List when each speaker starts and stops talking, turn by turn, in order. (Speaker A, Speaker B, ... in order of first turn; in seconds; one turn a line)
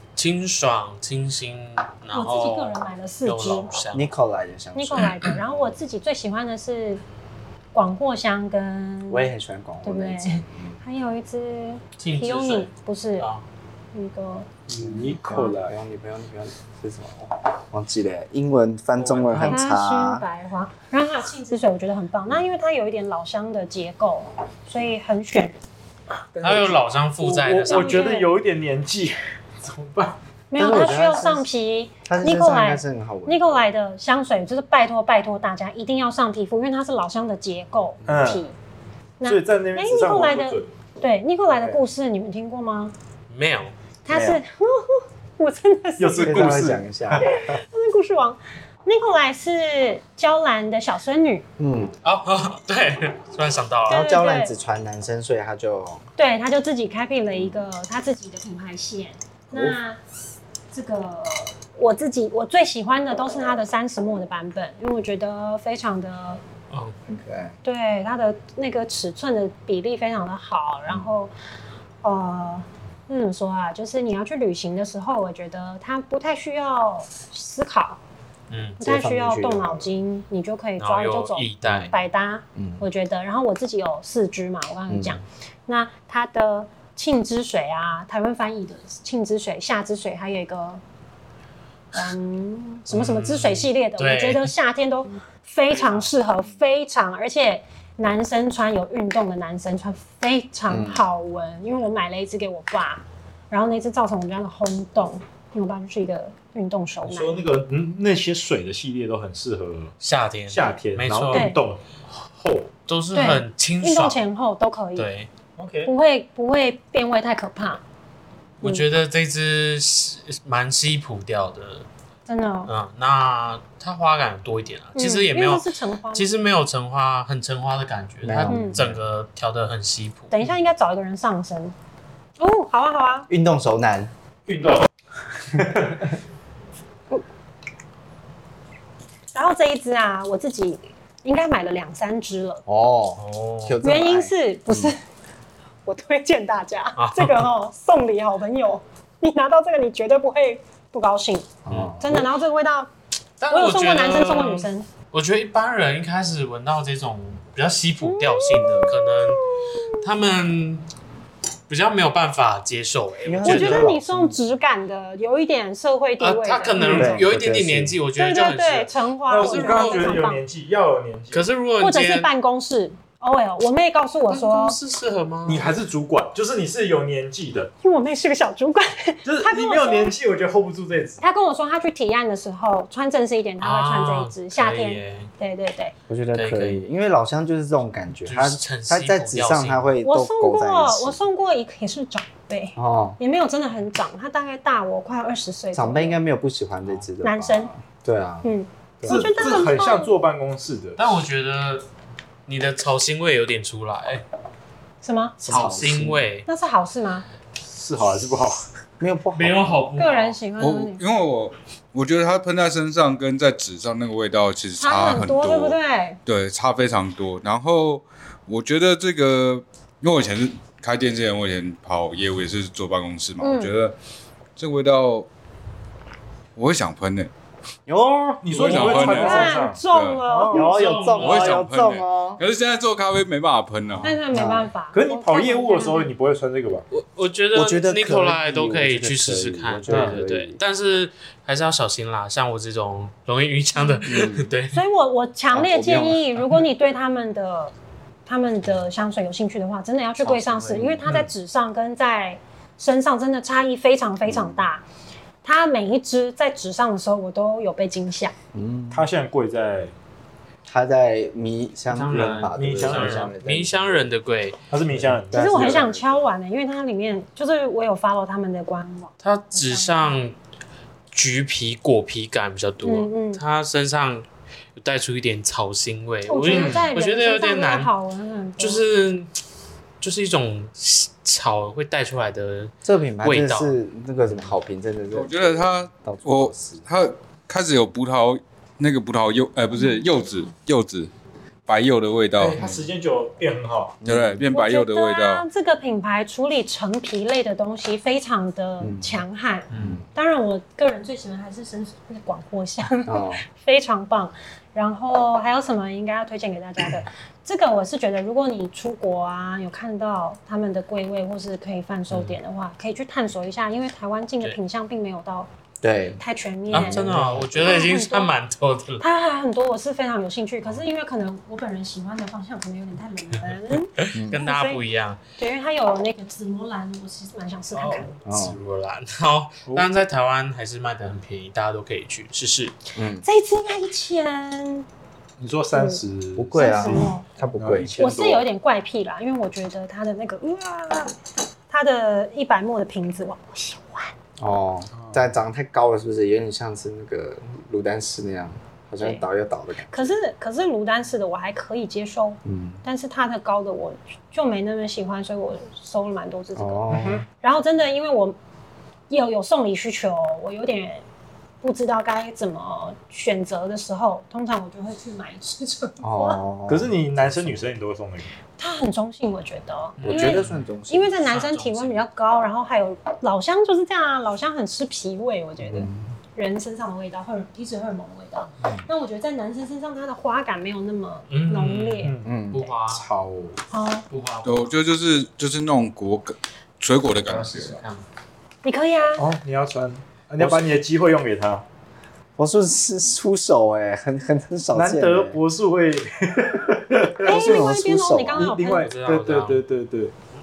Speaker A: 0.1-4.1
Speaker B: 2.1-3.7
Speaker C: 3.9-5.8
Speaker B: 4.7-7.0
Speaker B: 7.7-9.3
Speaker C: 9.1-10.8
Speaker B: 9.8-13.2
Speaker A: 12.0-13.4
Speaker B: 13.9-14.5
Speaker D: 14.7-15.7
Speaker C: 14.8-20.2
Speaker B: 15.2-15.5
Speaker A: 19.0-19.6
Speaker B: 19.4-25.6
Speaker D: 26.4-30.2
Speaker A: 26.4-28.2
Speaker B: 27.7-28.3
Speaker B: 30.5-38.5
Speaker C: 30.6-31.5
Speaker C: 32.0-33.6
Speaker D: 38.1-38.4
Speaker B: 39.2-42.9
Speaker D: 39.2-40.7
Speaker D: 41.5-41.8
Speaker A: 43.3-43.7
Speaker B: 44.0-46.6
Speaker D: 44.1-44.4
Speaker D: 46.0-47.4
Speaker C: 46.2-47.3
Speaker B: 47.2-51.4
Speaker C: 51.6-52.0
Speaker A: 52.0-54.0
Speaker C: 53.9-56.0
Speaker B: 53.9-54.5
Speaker B: 56.2-60.0
Speaker C: 59.5-59.8
Speaker B: 60.7-66.4
Speaker A: 66.7-67.0
Speaker C: 67.1-67.5
Speaker B: 67.6-71.3
Speaker B: 72.0-78.0
Speaker A: 78.5-78.8
Speaker B: 78.8-90.8
Speaker C: 78.8-79.9
Speaker A: 80.8-81.9
Speaker C: 82.5-82.8
Speaker C: 84.9-85.2
Speaker B: 91.9-107.4
Speaker A: 92.9-94.5
Speaker C: 100.7-101.0
Speaker D: 107.0-109.9
Speaker A: 110.0-111.5
Speaker D: 110.5-112.7
Speaker B: 111.3-111.6
Speaker A: 112.9-114.2
Speaker B: 113.1-115.1
Speaker A: 115.0-115.3
Speaker D: 115.6-115.9
Speaker B: 115.8-117.8
Speaker A: 118.6-121.8
Speaker B: 122.3-122.7
Speaker A: 122.7-130.3
Speaker B: 124.9-126.3
Speaker C: 128.2-129.0
Speaker B: 128.5-128.8
Speaker B: 130.3-131.7
Speaker B: 132.4-133.3
Speaker C: 133.3-134.1
Speaker D: 134.5-134.9
Speaker D: 135.5-136.0
Speaker B: 139.3-142.6
Speaker C: 142.7-144.9
Speaker A: 143.2-143.8
Speaker B: 143.8-145.0
Speaker B: 145.8-152.9
Speaker A: 147.0-147.5
Speaker C: 151.6-152.3
Speaker A: 151.7-151.9
Speaker A: 153.4-160.8
Speaker B: 153.5-154.9
Speaker B: 158.0-160.0
Speaker A: 161.7-163.9
Speaker C: 163.2-164.4
Speaker B: 163.4-167.2
Speaker A: 166.2-170.2
Speaker D: 166.8-167.2
Speaker C: 166.9-167.9
Speaker B: 168.2-170.4
Speaker D: 169.3-171.5
Speaker A: 171.3-172.3
Speaker B: 171.8-174.8
Speaker A: 174.3-175.7
Speaker D: 175.4-177.7
Speaker B: 177.8-180.1
Speaker D: 179.2-181.2
Speaker B: 181.2-185.9
Speaker A: 183.6-185.3
Speaker C: 186.1-191.2
Speaker A: 186.3-186.8
Speaker A: 188.2-189.9
Speaker B: 190.0-196.2
Speaker C: 192.8-193.2
Speaker C: 195.7-198.5
Speaker B: 197.2-197.7
Speaker B: 198.4-200.1
Speaker C: 199.0-199.6
Speaker D: 199.0-201.0
Speaker A: 201.0-201.8
Speaker A: 202.5-204.2
Speaker B: 205.0-205.4
Speaker C: 205.4-206.2
Speaker A: 205.4-206.5
Speaker B: 206.4-207.2
Speaker D: 207.6-208.6
Speaker C: 209.0-209.9
Speaker A: 209.3-210.4
Speaker B: 210.0-211.0
Speaker E: 210.6-223.9
Speaker B: 214.8-216.2
Speaker B: 223.4-223.7
Speaker E: 224.6-225.3
Speaker E: 226.6-227.3
Speaker C: 227.9-229.2
Speaker D: 228.4-230.7
Speaker E: 228.5-230.2
Speaker B: 228.8-230.7
Speaker C: 230.5-232.4
Speaker A: 230.5-231.7
Speaker E: 231.1-234.2
Speaker C: 234.0-234.7
Speaker B: 234.0-236.1
Speaker D: 234.9-236.8
Speaker A: 236.9-244.8
Speaker C: 237.5-240.6
Speaker D: 239.9-240.2
Speaker C: 244.0-244.5
Speaker B: 244.7-247.7
Speaker C: 245.5-246.3
Speaker B: 248.2-254.8
Speaker C: 250.2-251.1
Speaker C: 254.2-254.6
Speaker B: 255.4-258.3
Speaker C: 258.5-259.1
Speaker D: 258.9-259.9
Speaker C: 260.7-264.0
Speaker A: 261.9-264.6
Speaker D: 262.5-263.3
Speaker D: 264.7-265.9
Speaker C: 264.9-266.2
Speaker B: 265.3-270.2
Speaker A: 269.2-270.3
Speaker A: 271.1-277.9
Speaker B: 272.8-273.4
Speaker B: 276.3-278.8
Speaker D: 276.5-276.9
Speaker A: 278.6-279.3
Speaker A: 280.0-283.8
Speaker C: 282.8-286.8
Speaker E: 285.1-291.1
Speaker E: 291.7-292.8
Speaker D: 292.4-294.0
Speaker C: 294.0-294.4
Speaker E: 294.0-295.5
Speaker B: 294.5-315.5
Speaker C: 298.8-299.2
Speaker A: 299.7-300.0
Speaker C: 299.8-300.0
Speaker C: 303.1-303.4
Speaker C: 315.8-317.6
Speaker B: 316.2-318.3
Speaker A: 316.7-319.0
Speaker B: 319.0-324.8
Speaker A: 324.0-325.2
Speaker C: 324.1-324.4
Speaker B: 325.4-328.1
Speaker A: 327.7-332.7
Speaker C: 328.2-328.6
Speaker C: 332.9-333.2
Speaker B: 333.2-334.9
Speaker D: 335.4-338.5
Speaker B: 335.7-336.0
Speaker C: 336.4-338.0
Speaker B: 336.5-337.2
Speaker B: 338.0-341.1
Speaker B: 341.7-344.1
Speaker C: 344.4-350.1
Speaker D: 344.9-345.2
Speaker B: 349.0-349.2
Speaker B: 349.9-356.9
Speaker C: 352.4-352.8
Speaker C: 356.6-357.2
Speaker D: 356.9-357.2
Speaker B: 357.4-358.4
Speaker B: 359.1-361.0
Speaker B: 361.6-366.4
Speaker C: 366.0-367.7
Speaker D: 366.7-368.3
Speaker B: 368.6-382.6
Speaker A: 370.0-370.6
Speaker C: 370.0-371.2
Speaker A: 371.2-372.0
Speaker C: 375.6-376.1
Speaker A: 381.3-383.0
Speaker D: 382.0-382.4
Speaker C: 382.2-382.6
Speaker D: 382.9-383.6
Speaker B: 383.7-384.1
Speaker A: 384.1-384.7
Speaker E: 384.4-387.8
Speaker A: 387.1-388.0
Speaker B: 388.6-389.2
Speaker D: 389.2-391.6
Speaker C: 390.4-390.7
Speaker C: 392.4-395.4
Speaker D: 394.7-397.6
Speaker C: 397.2-398.5
Speaker B: 397.2-398.9
Speaker D: 398.3-400.1
Speaker A: 398.6-399.6